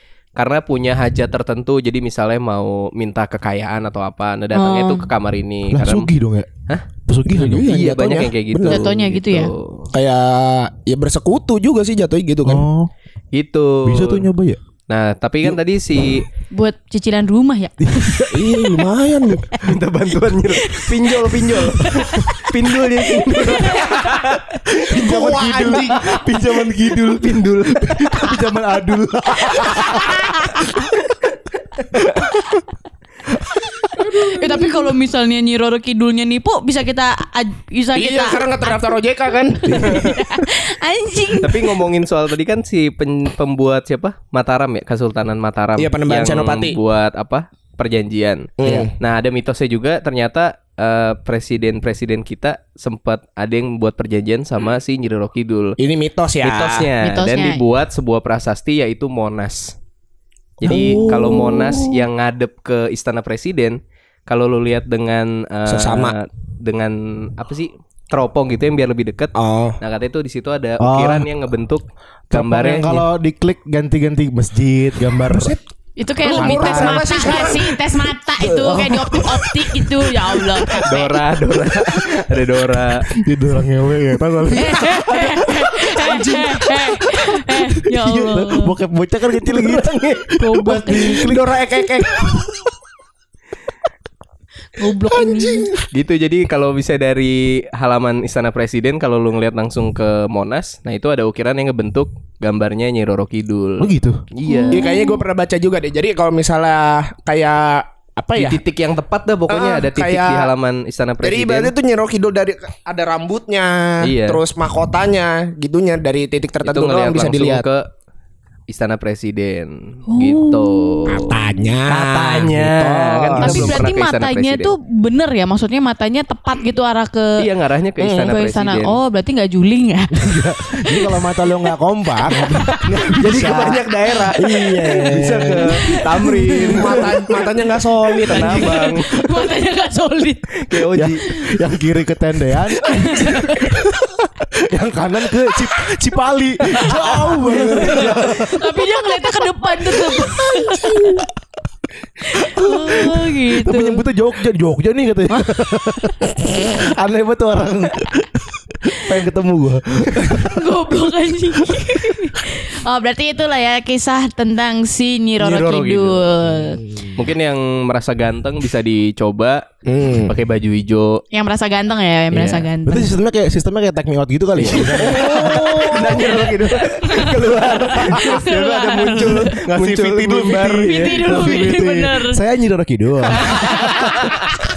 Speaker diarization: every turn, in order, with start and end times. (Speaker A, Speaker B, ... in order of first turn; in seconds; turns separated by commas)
Speaker A: 0.3-6.1, Speaker B: 4.5-5.1, Speaker C: 5.7-6.5, Speaker C: 7.1-8.3, Speaker D: 7.3-8.8, Speaker A: 7.5-9.9, Speaker B: 8.7-9.5, Speaker D: 9.9-12.7, Speaker C: 12.4-12.9, Speaker A: 13.3-14.3, Speaker C: 13.8-14.6, Speaker A: 14.9-16.2, Speaker B: 16.5-18.3, Speaker D: 18.3-19.6, Speaker A: 19.6-24.4, Speaker B: 20.5-24.2, Speaker C: 24.7-30.9, Speaker D: 25.0-25.8, Speaker A: 25.9-28.4, Speaker B: 29.6-30.8, Speaker B: 34.1-38.9, Speaker D: 37.9-40.2, Speaker C: 39.6-40.1, Speaker B: 39.7-41.8, Speaker A: 41.4-55.8, Speaker D: 45.8-46.8, Speaker D: 48.6-48.9, Speaker C: 48.6-48.9, Speaker D: 55.8-56.9, Speaker A: 56.4-59.7, Speaker B: 57.0-57.6, Speaker D: 60.6-61.1, Speaker C: 60.6-61.8, Speaker A: 60.6-73.0, Speaker D: 65.7-66.1, Speaker D: 69.3-69.8, Speaker C: 70.8-71.3, Speaker C: 72.3-75.6, Speaker D: 75.3-75.6, Speaker B: 76.0-81.2, Speaker D: 76.2-77.8, Speaker C: 76.2-77.6, Speaker C: 78.4-80.8, Speaker A: 80.8-83.0, Speaker C: 82.0-82.2, Speaker C: 83.1-86.7, Speaker B: 84.5-88.7, Speaker C: 87.5-91.9, Speaker A: 89.4-90.2, Speaker B: 90.4-91.3, Speaker D: 91.3-92.5, Speaker B: 94.7-95.7, Speaker D: 95.2-95.8, Speaker A: 95.9-104.9, Speaker C: 103.8-104.2, Speaker B: 104.4-105.2, Speaker D: 104.7-108.6, Speaker A: 108.3-111.7, Speaker D: 109.5-110.5, Speaker D: 111.2-117.6, Speaker A: 114.0-114.4, Speaker A: 116.6-117.9, Speaker A: 118.7-124.7, Speaker B: 120.1-121.2, Speaker D: 121.1-123.6, Speaker C: 121.9-123.9, Speaker B: 123.4-127.4, Speaker A: 127.4-129.0, Speaker D: 128.0-128.3, Speaker B: 128.2-131.6, Speaker C: 130.1-135.9, Speaker B: 132.4-132.8, Speaker A: 133.1-137.2, Speaker B: 135.8-137.0, Speaker D: 136.7-138.8, Speaker B: 138.1-140.6, Speaker A: 138.2-139.1, Speaker A: 140.6-141.2, Speaker C: 140.9-143.8, Speaker B: 142.8-143.9, Speaker C: 144.5-149.1, Speaker B: 146.7-151.3, Speaker C: 150.0-151.2, Speaker B: 152.2-154.1, Speaker C: 152.4-160.7, Speaker B: 160.4-166.8, Speaker A: 165.4-166.2, Speaker A: 167.2-169.6, Speaker D: 169.8-170.3, Speaker A: 170.2-171.2, Speaker B: 171.3-173.1, Speaker A: 172.3-172.7, Speaker C: 172.8-176.4, Speaker A: 174.5-181.7, Speaker B: 175.1-176.4, Speaker B: 177.0-177.4, Speaker B: 178.0-179.6, Speaker C: 179.6-184.1, Speaker B: 180.8-182.4, Speaker A: 183.3-184.3, Speaker B: 183.5-184.4